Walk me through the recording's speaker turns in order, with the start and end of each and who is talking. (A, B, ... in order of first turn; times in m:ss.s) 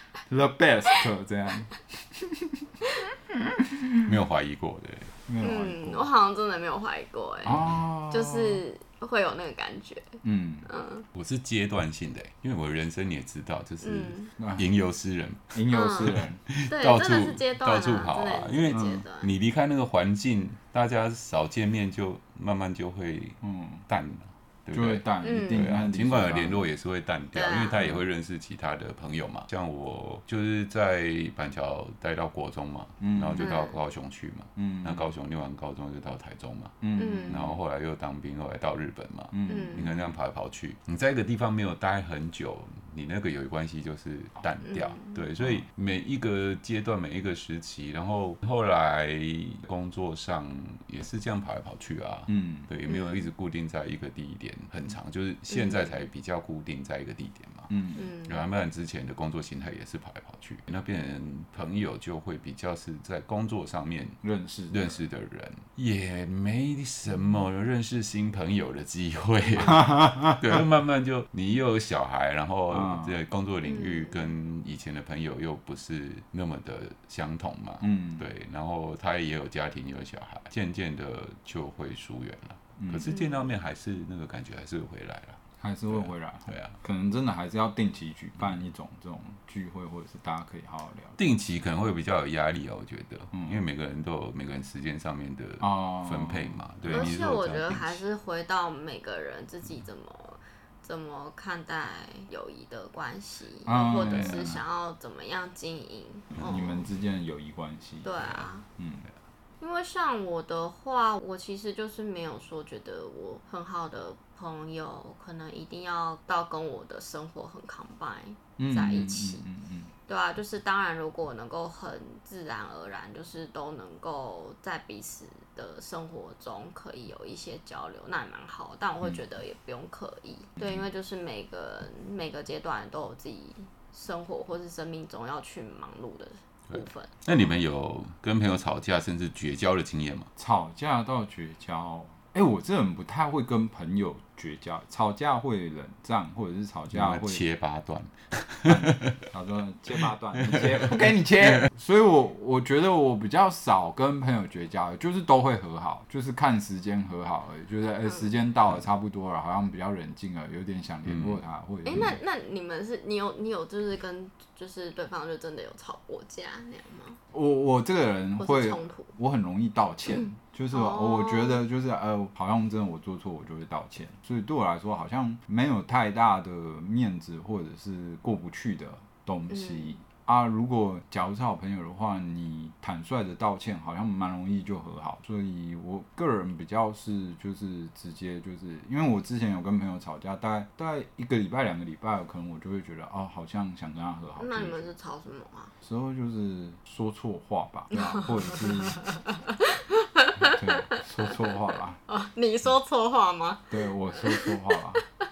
0:00.3-0:02.7 A
0:03.3-0:04.1 A
0:04.0-0:05.1 B
0:05.3-0:06.1 A
0:05.4-0:11.1 C
0:07.4-0:08.6 A
0:10.2-0:10.7 A
0:11.1-0:15.6 B
0:13.8-0:14.3 C
0:14.4-0:14.6 A
0:15.5-0:16.4 A
0:15.7-0:19.3 C
0:16.1-0:57.7 B
0:18.7-0:19.0 A
0:23.4-0:23.8 A
0:24.7-0:26.6 A
0:25.2-0:25.7 C
0:27.3-0:27.9 C
0:33.0-0:33.5 A
0:33.4-0:33.8 C
0:34.6-0:35.1 A
0:36.8-0:37.6 A
0:37.0-0:37.5 C
0:39.3-0:39.9 A
0:39.5-0:39.9 C
0:44.6-0:45.2 C
0:45.4-0:45.6 A
0:52.3-0:52.7 A
0:52.9-0:53.3 C
0:55.5-0:55.9 C
0:57.7-0:58.1 A
0:58.0-0:58.5 C
0:58.2-1:04.2 B
1:04.2-1:04.8 A
1:04.7-1:26.8 B
1:09.6-1:10.6 A
1:12.7-1:13.2 A
1:13.6-1:14.3 C
1:17.8-1:18.2 A
1:22.8-1:23.1 A
1:23.1-1:23.5 C
1:25.6-1:31.2 A
1:31.2-1:38.0 B
1:33.3-1:33.6 A
1:35.6-1:37.1 A
1:36.9-1:46.9 C
1:43.6-1:44.6 A
1:44.0-1:44.5 B
1:46.3-1:46.6 B
1:46.4-1:49.0 A
1:48.0-1:48.6 C
1:49.6-1:59.4 C
1:58.6-1:59.9 A
2:00.1-2:17.2 C
2:16.7-2:20.3 B
2:20.4-2:27.4 A
2:26.9-2:29.1 B
2:28.6-2:42.2 A
2:30.5-2:30.8 B
2:41.1-2:41.3 B
2:41.8-2:47.2 C
2:47.3-3:14.9 A
2:48.4-2:49.1 C
2:50.1-2:51.6 C
2:59.5-2:59.9 C
3:14.4-3:15.7 C
3:15.8-3:19.1 A
3:17.9-3:21.6 C
3:20.4-3:22.0 A
3:22.1-3:24.8 C
3:23.7-3:25.0 A